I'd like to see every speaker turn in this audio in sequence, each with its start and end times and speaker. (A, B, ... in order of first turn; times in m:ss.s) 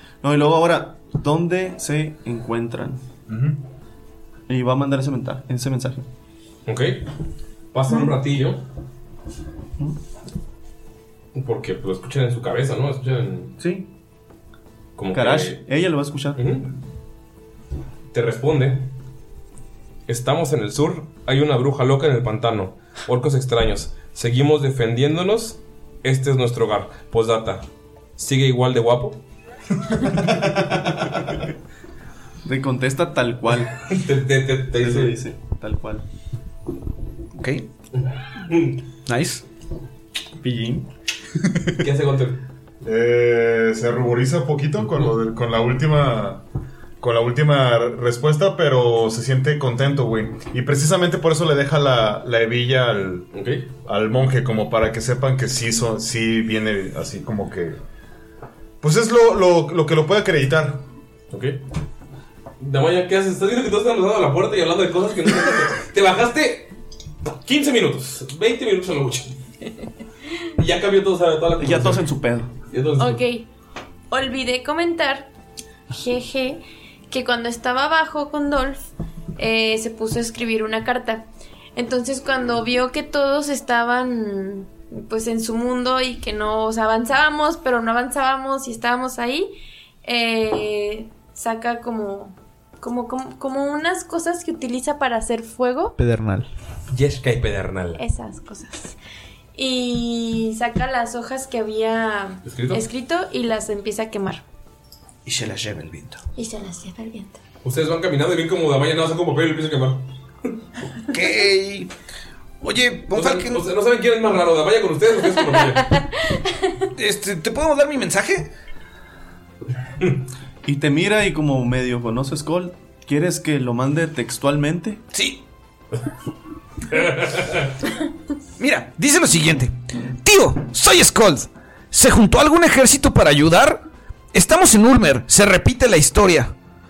0:00.2-0:03.0 A
0:03.3-0:03.6 B
0:04.5-0:06.0 A
0:06.6-0:07.0 C
0:07.7-0:08.6 C
0:11.3-0:13.5 C
0:13.6-0:13.9 A
0:15.0-0:15.6 C
0:15.1-0:16.4 A
0:16.3-0:16.7 C
0:18.1-0:18.9 C
0:20.1-0:27.6 C
0:28.2-0:29.2 C
0:32.4-0:33.7 A
0:33.8-0:35.2 C
0:34.8-0:36.0 A
0:37.3-0:37.7 D
0:38.4-0:38.8 C
0:39.0-0:39.4 D
0:40.4-0:40.8 A
0:41.8-0:42.4 C
0:42.8-0:46.4 B
0:47.0-0:53.3 B
0:53.3-0:53.6 C
0:53.8-0:57.8 B
0:58.8-1:00.8 B
1:01.3-1:01.6 C
1:02.6-1:06.7 C
1:07.2-1:09.3 C
1:10.6-1:12.0 C
1:11.6-1:12.5 A
1:12.7-1:13.2 C
1:13.0-1:13.5 E
1:14.1-1:15.3 E
1:15.9-1:18.8 E
1:19.4-1:29.5 E
1:30.0-1:35.9 E
1:36.0-1:36.5 D
1:36.9-1:38.0 C
1:38.0-1:39.0 E
1:39.5-1:44.4 E
1:42.4-1:42.8 C
1:45.2-1:46.2 D
1:46.4-1:47.4 E
1:47.6-1:50.0 C
1:51.1-1:51.9 D
1:52.6-1:53.6 D
1:53.1-1:55.9 C
1:56.9-1:58.5 D
2:00.6-2:05.0 A
2:05.1-2:05.4 D
2:06.9-2:07.6 C
2:08.6-2:16.5 D